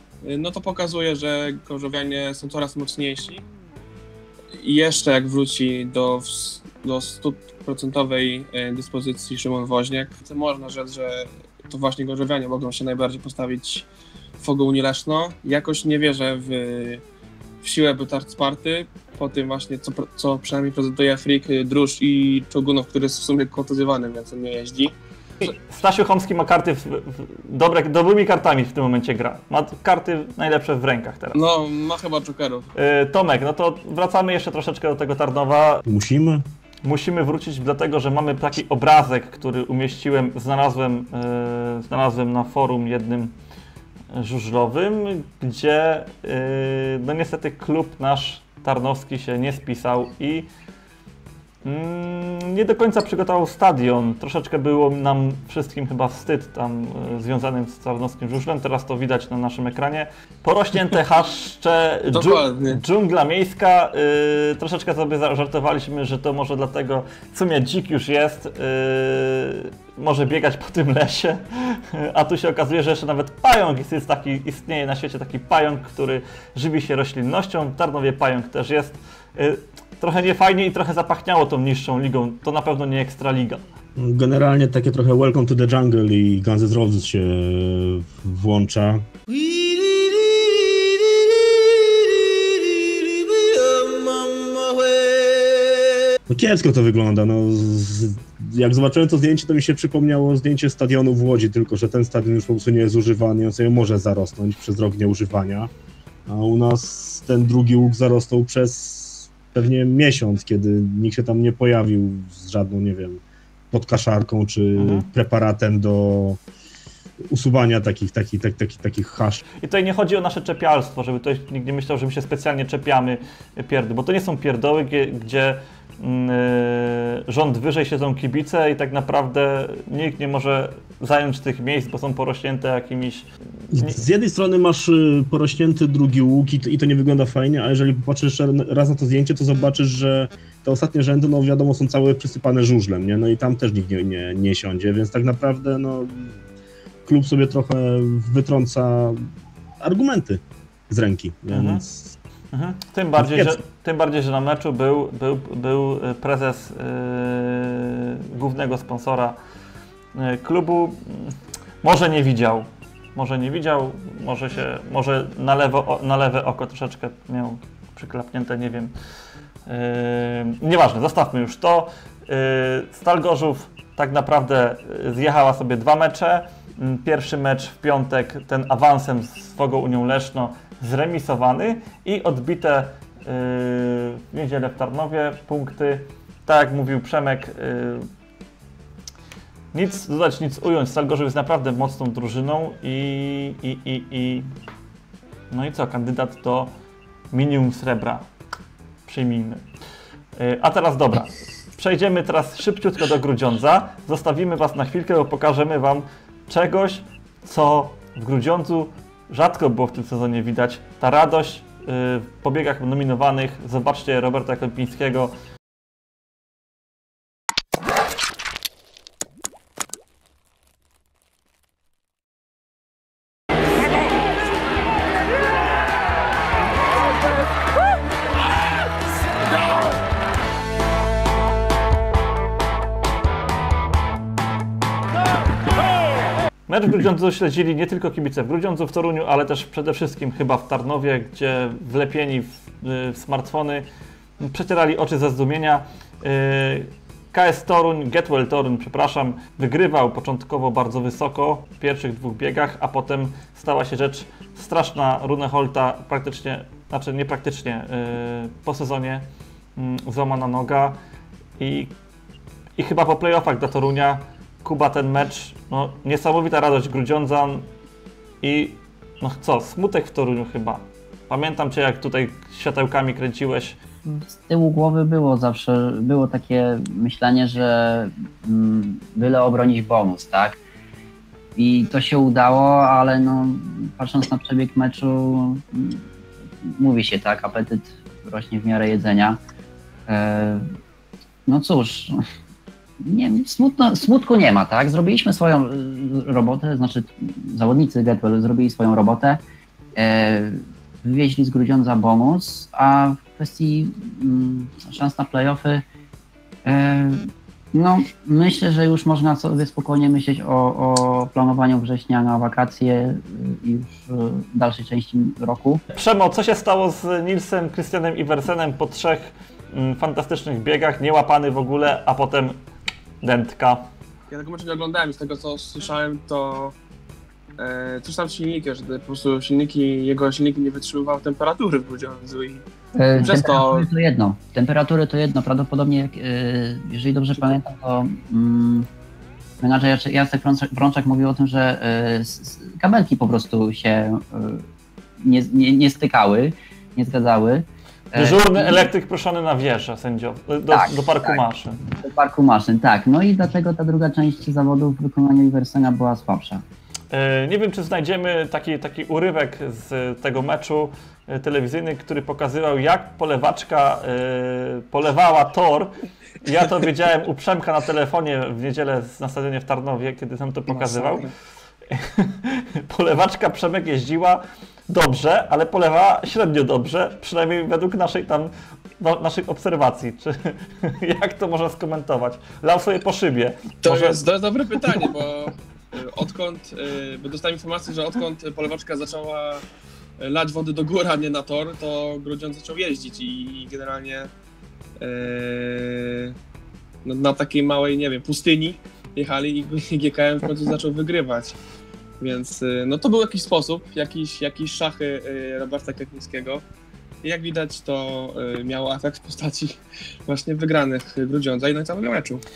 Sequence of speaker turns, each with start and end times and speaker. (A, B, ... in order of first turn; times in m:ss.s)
0:00.2-0:03.4 A
0:04.6-0:13.8 A
0:14.4-0:17.0 A
0:17.6-0:24.9 A
0:25.4-0:31.4 B
0:31.3-0:32.7 A
0:32.7-0:35.8 B
0:35.8-0:36.4 C
0:36.8-0:43.3 B
0:44.1-0:50.5 B
0:51.6-1:23.6 B
1:02.1-1:02.8 A
1:24.0-1:30.9 C
1:32.9-1:35.0 C
1:36.3-1:45.7 C
1:46.3-1:56.4 C
1:54.8-1:55.0 B
1:57.3-1:59.4 C
1:59.6-2:14.0 B
2:13.7-2:26.4 C
2:27.0-2:29.2 C
2:29.8-2:32.1 C
2:31.5-2:31.8 B
2:32.5-2:39.4 B
2:33.2-2:33.6 C
2:40.2-2:48.9 B
2:49.7-3:08.1 B
3:09.7-3:14.5 B
3:15.5-3:16.7 B
3:17.3-3:18.3 B
3:19.1-3:19.6 B
3:20.4-3:35.3 B
3:56.7-4:03.8 B
4:04.4-4:21.0 B
4:21.6-4:21.9 B
4:22.8-4:27.7 B
4:28.4-4:33.8 B
4:34.0-4:40.6 D
4:41.6-4:46.0 D
4:46.6-4:49.4 D
4:50.1-4:50.6 D
4:51.5-4:52.2 D
4:53.0-4:59.4 D
5:00.0-5:05.8 D
5:06.6-5:15.8 D
5:15.9-5:22.6 B
5:23.2-5:23.9 B
5:24.3-5:26.7 A
5:27.6-5:32.6 A
5:33.0-5:38.9 D
5:33.2-5:33.9 A
5:39.6-5:44.6 D
5:45.2-5:48.9 D
5:48.2-5:51.8 B
5:50.7-5:51.4 D
5:52.0-5:56.6 D
5:57.1-6:11.2 B
6:10.7-6:11.3 A
6:11.9-6:24.2 B
6:23.8-6:29.6 A
6:30.2-6:34.3 A
6:35.0-6:36.3 A
6:37.0-6:41.6 A
6:42.2-6:46.6 A
6:47.2-6:52.4 A